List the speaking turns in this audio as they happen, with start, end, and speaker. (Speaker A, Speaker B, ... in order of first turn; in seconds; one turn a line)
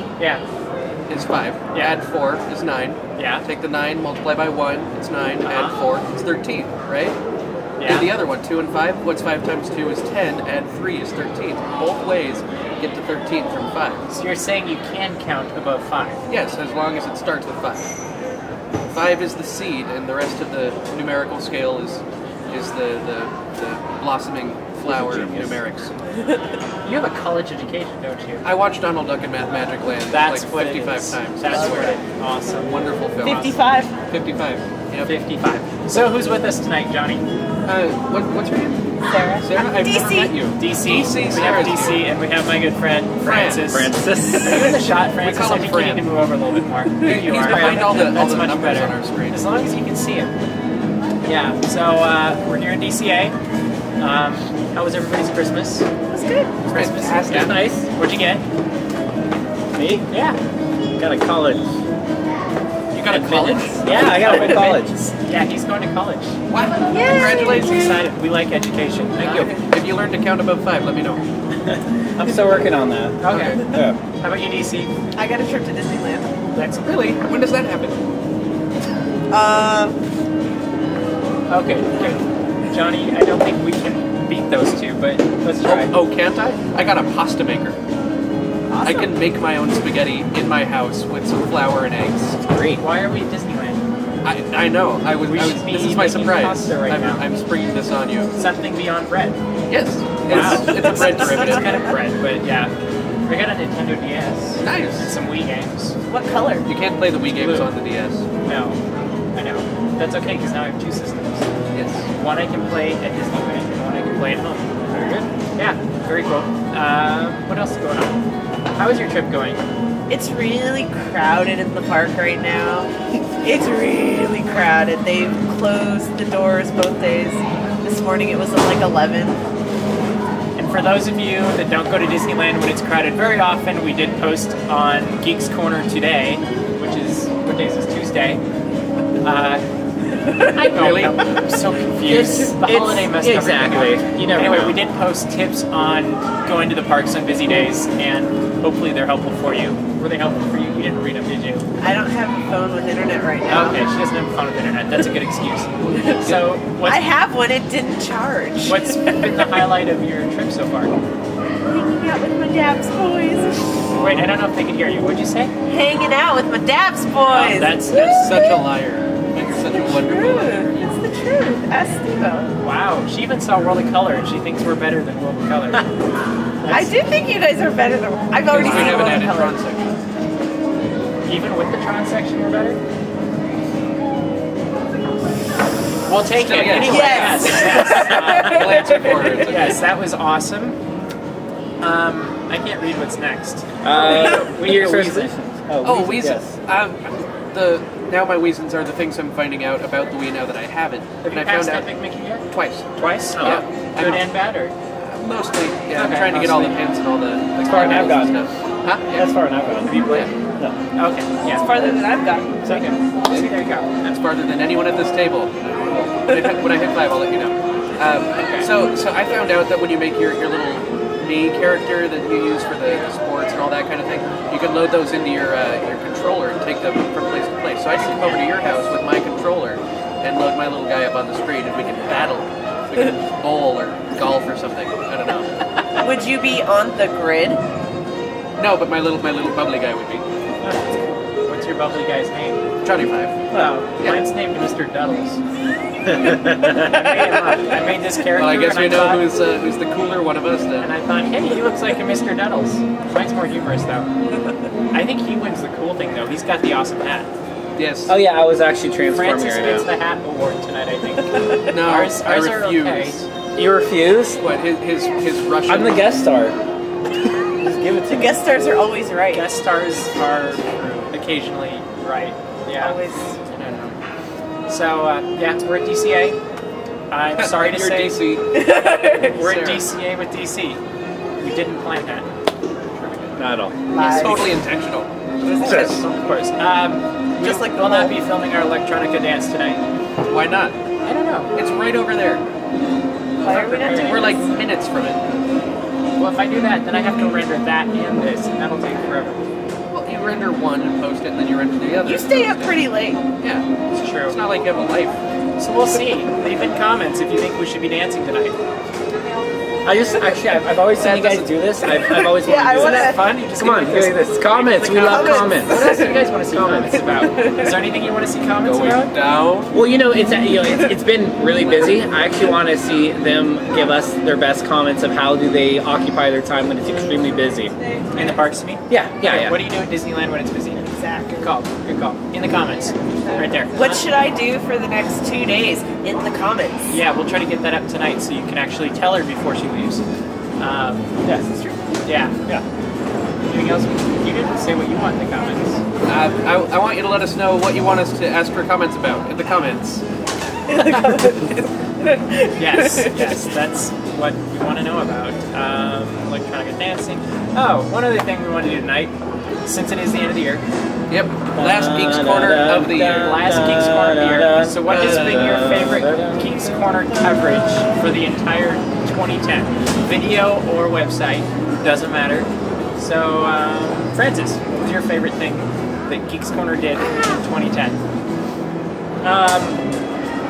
Speaker A: 0.2-0.4
Speaker B: 1.1-7.2
Speaker A: 1.7-2.0
Speaker A: 3.2-3.5
Speaker A: 5.4-5.8
Speaker A: 7.8-8.1
Speaker B: 7.8-14.1
Speaker A: 14.1-16.2
Speaker B: 16.3-17.9
Speaker B: 18.9-25.9
Speaker C: 24.9-25.5
Speaker A: 26.8-28.5
Speaker B: 28.4-32.0
Speaker A: 30.1-32.7
Speaker D: 31.5-31.9
Speaker B: 32.6-33.6
Speaker D: 33.2-34.0
Speaker B: 34.1-35.1
Speaker A: 35.0-37.2
Speaker B: 37.7-42.1
Speaker D: 39.0-40.4
Speaker A: 40.5-50.3
Speaker B: 43.2-43.7
Speaker C: 43.7-44.8
Speaker B: 44.4-46.1
Speaker B: 47.0-49.4
Speaker C: 47.5-48.0
Speaker A: 51.3-53.4
Speaker A: 54.0-55.9
Speaker D: 56.1-56.5
Speaker A: 56.7-58.4
Speaker B: 56.7-57.5
Speaker C: 57.3-57.9
Speaker C: 59.7-60.1
Speaker A: 60.1-60.4
Speaker C: 61.0-61.7
Speaker B: 62.9-63.9
Speaker C: 63.1-65.0
Speaker A: 63.8-66.4
Speaker B: 66.5-67.8
Speaker D: 66.8-67.7
Speaker A: 67.4-69.5
Speaker B: 69.2-71.2
Speaker D: 69.3-69.6
Speaker C: 71.6-74.0
Speaker A: 73.2-74.9
Speaker B: 73.3-73.6
Speaker D: 75.2-76.3
Speaker A: 76.5-77.2
Speaker B: 77.2-78.0
Speaker D: 79.3-80.0
Speaker A: 81.5-85.9
Speaker B: 85.6-87.8
Speaker D: 88.7-89.1
Speaker B: 88.8-92.4
Speaker C: 92.4-92.8
Speaker A: 92.8-93.8
Speaker B: 94.2-98.3
Speaker A: 95.3-97.3
Speaker A: 98.3-99.4
Speaker B: 99.7-101.7
Speaker A: 100.2-102.7
Speaker D: 100.7-101.8
Speaker A: 103.3-106.0
Speaker B: 104.6-105.1
Speaker D: 106.1-106.7
Speaker B: 106.7-108.2
Speaker A: 107.2-107.7
Speaker A: 108.5-108.8
Speaker A: 109.3-111.5
Speaker B: 111.7-112.1
Speaker A: 112.1-118.2
Speaker A: 118.8-119.6
Speaker D: 120.1-129.4
Speaker A: 130.6-138.4
Speaker A: 139.2-139.6
Speaker B: 140.4-141.2
Speaker A: 140.4-151.7
Speaker C: 142.1-144.8
Speaker D: 151.8-153.9
Speaker A: 153.5-157.1
Speaker B: 155.8-156.6
Speaker D: 156.8-159.6
Speaker A: 158.7-161.0
Speaker D: 161.6-163.8
Speaker B: 163.9-164.3
Speaker A: 163.9-165.5
Speaker D: 165.7-168.6
Speaker A: 167.3-168.3
Speaker B: 168.0-170.8
Speaker D: 169.8-172.6
Speaker A: 172.6-175.9
Speaker A: 176.6-177.0
Speaker D: 176.7-179.6
Speaker B: 178.5-179.8
Speaker A: 178.6-179.3
Speaker A: 181.3-182.8
Speaker A: 186.1-190.8
Speaker B: 186.3-189.8
Speaker D: 186.7-188.9
Speaker A: 191.8-195.3
Speaker C: 193.8-196.5
Speaker B: 195.8-201.9
Speaker A: 201.2-202.4
Speaker B: 202.5-202.9
Speaker C: 203.0-203.7
Speaker A: 203.0-204.7
Speaker B: 203.4-204.3
Speaker B: 205.0-209.3
Speaker A: 205.9-206.9
Speaker A: 207.7-208.2
Speaker C: 207.7-208.4
Speaker C: 209.1-210.8
Speaker A: 209.8-210.3
Speaker A: 210.9-211.7
Speaker D: 211.4-212.7
Speaker A: 212.7-213.9
Speaker B: 213.3-235.5
Speaker D: 216.3-216.6
Speaker A: 218.4-218.7
Speaker D: 236.0-237.6
Speaker B: 238.6-240.2
Speaker A: 240.6-242.7
Speaker B: 242.8-243.4
Speaker C: 243.5-243.8
Speaker A: 243.5-245.4
Speaker B: 244.0-244.2
Speaker C: 246.1-246.8
Speaker A: 246.6-249.3
Speaker D: 247.0-247.6
Speaker B: 248.3-250.9
Speaker A: 250.8-254.1
Speaker A: 254.9-257.3
Speaker B: 257.8-258.2
Speaker C: 258.1-259.9
Speaker A: 259.1-263.3
Speaker D: 261.4-261.7
Speaker B: 261.7-263.2
Speaker C: 263.6-264.4
Speaker B: 264.4-266.0
Speaker C: 265.7-266.6
Speaker C: 267.4-268.4
Speaker D: 268.1-269.5
Speaker A: 269.3-274.0
Speaker D: 272.8-273.4
Speaker A: 274.7-276.4
Speaker A: 277.1-278.3
Speaker B: 277.4-278.5
Speaker D: 278.5-279.4
Speaker A: 279.2-280.8
Speaker B: 279.3-279.9
Speaker A: 281.4-282.3
Speaker B: 283.0-283.4
Speaker C: 283.4-283.8
Speaker D: 283.9-284.6
Speaker B: 283.9-286.1
Speaker A: 285.6-289.8
Speaker C: 285.6-286.0
Speaker D: 287.4-288.2
Speaker B: 290.3-290.8
Speaker A: 291.0-291.5
Speaker B: 291.5-292.4
Speaker D: 293.4-294.5
Speaker A: 293.4-294.3
Speaker B: 293.8-295.4
Speaker A: 296.2-299.4
Speaker B: 299.9-302.8
Speaker D: 302.0-303.2
Speaker B: 303.4-303.7
Speaker A: 303.9-304.4
Speaker B: 304.2-305.2
Speaker A: 305.6-308.6
Speaker C: 309.9-317.2
Speaker A: 311.0-311.4
Speaker D: 312.1-313.2
Speaker A: 312.7-319.1
Speaker D: 314.9-316.1
Speaker B: 318.6-319.7
Speaker C: 319.7-327.7
Speaker B: 321.5-322.1
Speaker D: 328.0-328.4
Speaker A: 328.1-334.1
Speaker C: 328.9-329.6
Speaker D: 330.8-331.6
Speaker D: 333.2-337.0
Speaker A: 336.9-340.0
Speaker A: 340.6-341.1
Speaker C: 341.2-341.7
Speaker A: 342.1-342.4
Speaker A: 343.5-345.8
Speaker B: 346.1-350.0
Speaker D: 350.7-353.4
Speaker A: 352.6-359.1
Speaker A: 359.6-360.6
Speaker B: 361.1-363.3
Speaker C: 361.6-366.5
Speaker A: 363.2-378.0
Speaker B: 364.9-365.7
Speaker A: 379.2-379.8